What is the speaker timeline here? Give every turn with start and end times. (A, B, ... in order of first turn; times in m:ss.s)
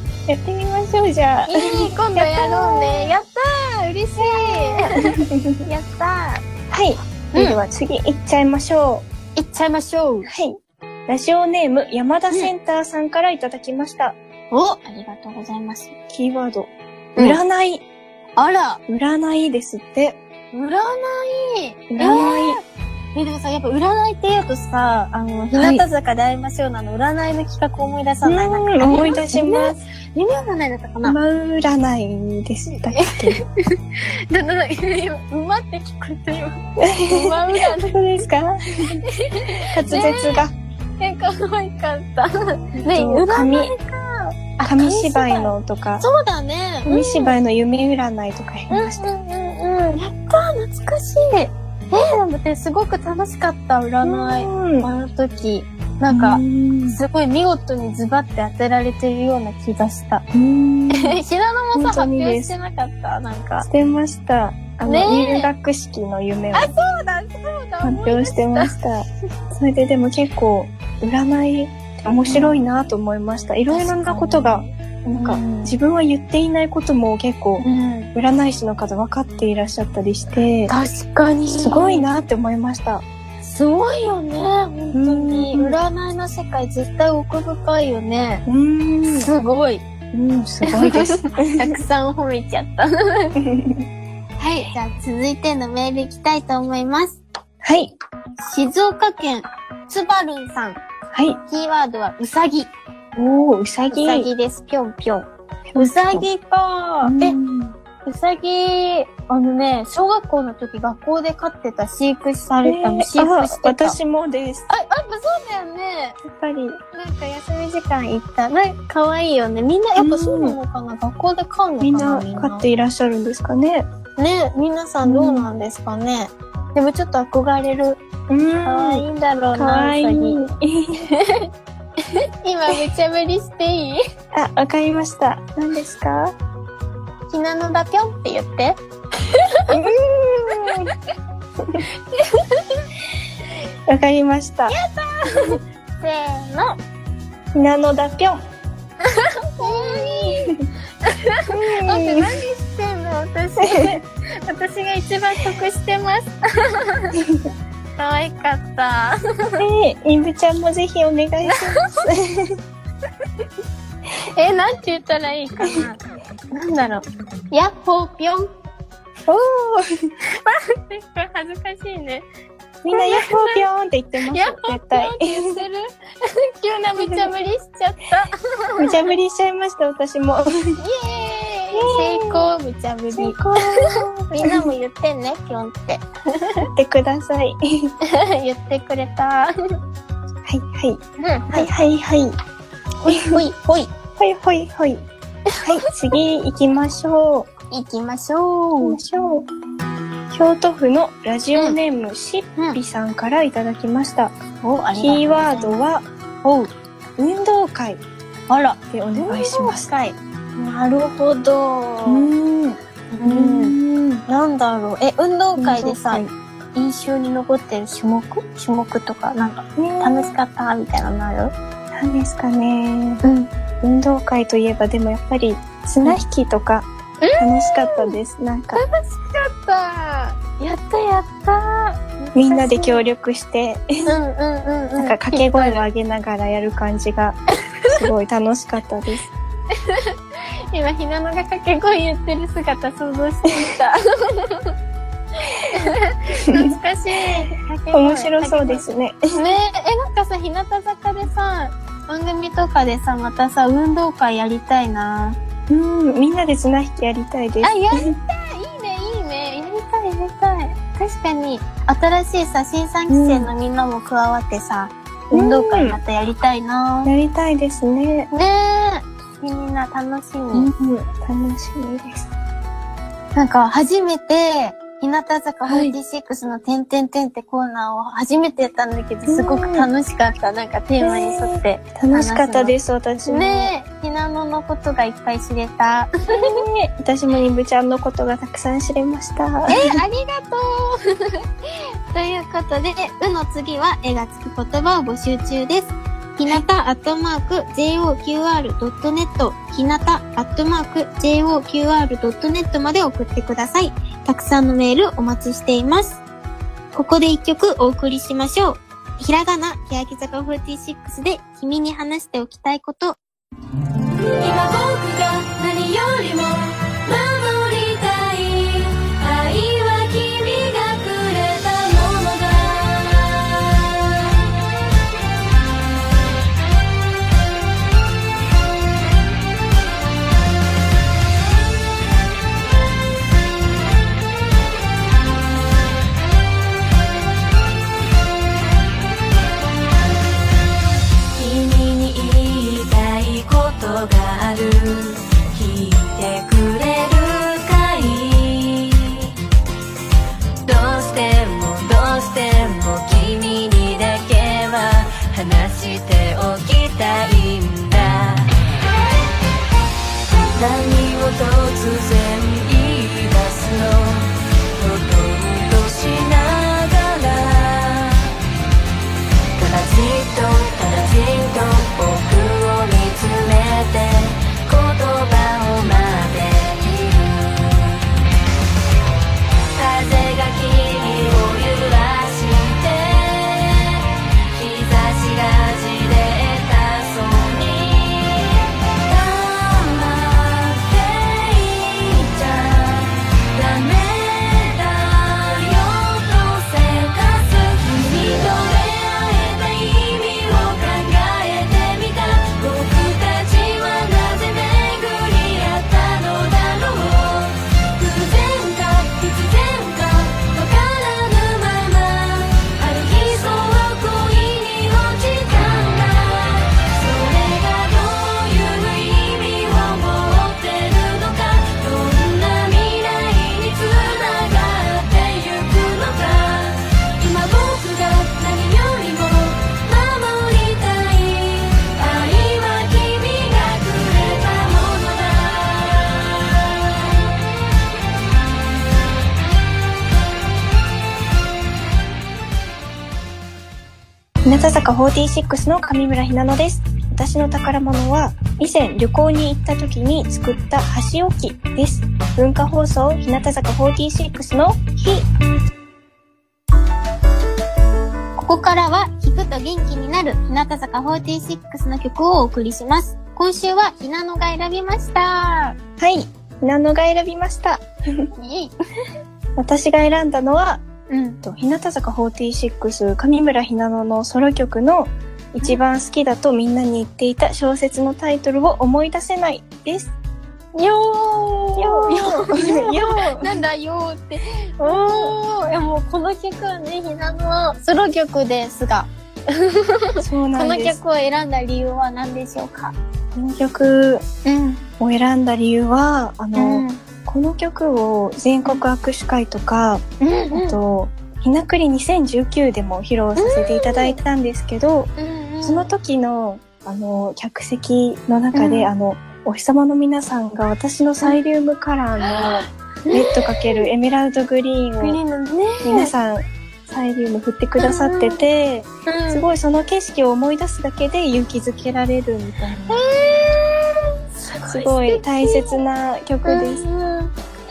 0:00.3-0:03.1 A
0:01.5-0:06.4 B
0:04.2-0:05.6 A
0:06.7-0:09.0 A
0:07.3-0:07.6 B
0:09.4-0:10.3 B
0:10.3-0:14.2 A
0:14.5-0:16.0 B
0:16.1-0:17.8 A
0:18.4-0:18.8 B
0:18.9-0:20.2 A
0:20.5-0:22.6 B
0:21.9-0:22.6 A
0:23.1-0:31.2 B
0:25.5-0:25.8 A
0:28.2-0:29.8 A
0:31.0-0:33.4 A
0:32.9-0:38.1 B
0:36.8-0:39.0 A
0:39.0-0:40.4 B
0:39.7-0:40.5 A
0:41.0-0:47.3 B
0:42.8-0:43.7 A
0:44.6-0:46.0 A
0:46.8-0:49.0 A
0:48.7-1:00.2 B
0:54.0-0:54.9 A
0:56.1-0:57.0 A
1:00.3-1:01.2 A
1:00.9-1:03.7 B
1:01.7-1:02.5 A
1:03.6-1:06.7 A
1:04.8-1:05.5 B
1:06.5-1:08.7 B
1:07.8-1:20.7 A
1:12.2-1:12.6 B
1:13.7-1:15.8 B
1:17.6-1:18.1 B
1:20.7-1:22.0 B
1:21.6-1:23.0 A
1:23.4-1:28.4 B
1:24.9-1:25.8 A
1:28.4-1:29.3 A
1:29.1-1:29.8 B
1:30.1-1:31.8 A
1:30.6-1:33.3 B
1:33.4-1:33.8 A
1:34.4-1:37.2 B
1:37.6-1:37.9 A
1:38.4-1:40.8 B
1:41.1-1:41.4 A
1:41.5-1:42.7 B
1:43.2-1:44.3 A
1:43.9-1:47.4 B
1:45.7-1:46.3 A
1:47.0-1:47.8 A
1:48.0-1:54.0 B
1:52.6-1:54.7 A
1:54.7-1:56.2 B
1:56.2-1:56.8 A
1:56.9-2:02.6 B
2:00.0-2:00.6 A
2:01.8-2:03.8 A
2:04.2-2:08.0 B
2:05.0-2:05.5 A
2:08.3-2:11.1 A
2:08.6-2:10.4 B
2:11.1-2:11.5 B
2:12.0-2:14.0 B
2:14.3-2:16.3 A
2:17.3-2:19.8 B
2:19.7-2:20.9 A
2:21.9-2:22.8 B
2:23.9-2:24.7 A
2:24.7-2:26.8 B
2:27.5-2:28.4 A
2:29.0-2:37.2 B
2:29.6-2:30.7 A
2:31.5-2:32.4 A
2:33.6-2:34.0 A
2:37.2-2:37.5 A
2:38.0-2:39.6 B
2:39.6-2:42.6 A
2:41.5-2:42.1 B
2:44.3-2:46.0 B
2:46.5-2:48.5 B
2:49.3-2:50.1 A
2:50.3-2:52.2 B
2:52.8-2:55.6 A
2:52.9-2:53.6 B
2:54.3-2:59.0 B
2:57.0-2:57.3 A
2:58.8-3:00.8 A
3:00.8-3:06.7 B
3:01.7-3:02.5 A
3:03.1-3:04.7 A
3:06.7-3:07.9 A
3:08.0-3:09.5 B
3:10.4-3:11.0 A
3:11.2-3:11.7 B
3:11.5-3:12.3 A
3:13.0-3:13.9 B
3:13.1-3:13.4 A
3:14.2-3:15.0 A
3:15.5-3:16.2 B
3:15.6-3:17.5 A
3:17.7-3:19.0 B
3:18.8-3:19.5 A
3:20.3-3:24.3 A
3:24.6-3:25.8 B
3:25.0-3:26.0 A
3:26.4-3:26.7 B
3:27.2-3:28.0 A
3:28.5-3:32.3 B
3:28.9-3:29.9 A
3:32.0-3:34.2 A
3:33.1-3:41.5 B
3:35.6-3:36.3 A
3:39.8-3:40.3 A
3:41.9-3:43.2 A
3:43.2-3:43.5 B
3:43.8-3:48.8 A
3:47.2-3:48.2 B
3:48.7-3:53.0 B
3:52.3-3:54.1 A
3:54.0-3:55.8 B
3:55.0-3:59.3 A
3:59.7-4:00.1 B
4:00.7-4:04.7 B
4:05.5-4:15.4 B
4:07.3-4:09.4 A
4:15.7-4:18.1 A
4:17.6-4:27.1 B
4:23.1-4:23.5 A
4:25.3-4:26.0 A
4:27.0-4:28.3 A
4:28.3-4:30.7 B
4:30.5-4:32.3 A
4:33.3-4:42.7 B
4:35.6-4:35.9 A
4:39.3-4:39.9 A
4:41.0-4:43.7 A
4:43.2-4:46.6 B
4:46.3-4:50.0 A
4:49.7-4:51.4 B
4:52.1-5:06.2 B
5:06.9-5:13.2 B
5:14.4-5:24.5 C
5:41.4-5:49.3 C
5:50.6-5:58.5 C
6:00.5-6:08.3 C
6:09.6-6:17.4 C
6:19.7-7:16.7 C
7:24.4-7:35.3 A
7:38.4-7:45.8 B
7:46.0-7:48.3 A
7:48.4-7:48.7 B
7:49.6-7:50.8 A
7:51.1-7:51.4 B
7:51.4-8:00.1 A
8:00.7-8:13.0 B
8:01.8-8:03.6 A
8:04.8-8:05.4 A
8:10.2-8:11.0 A
8:13.3-8:14.2 A
8:14.4-8:14.8 B
8:15.0-8:25.1 A
8:16.5-8:17.0 B
8:20.2-8:20.8 B
8:23.4-8:24.2 B
8:25.2-8:25.9 B
8:25.6-8:35.2 A
8:28.5-8:28.9 B
8:33.0-8:33.8 B
8:35.0-8:36.1 B
8:35.8-8:43.0 A
8:37.8-8:38.4 B
8:39.1-8:39.4 B
8:42.9-8:45.8 B
8:44.7-8:46.8 A
8:46.4-8:47.3 B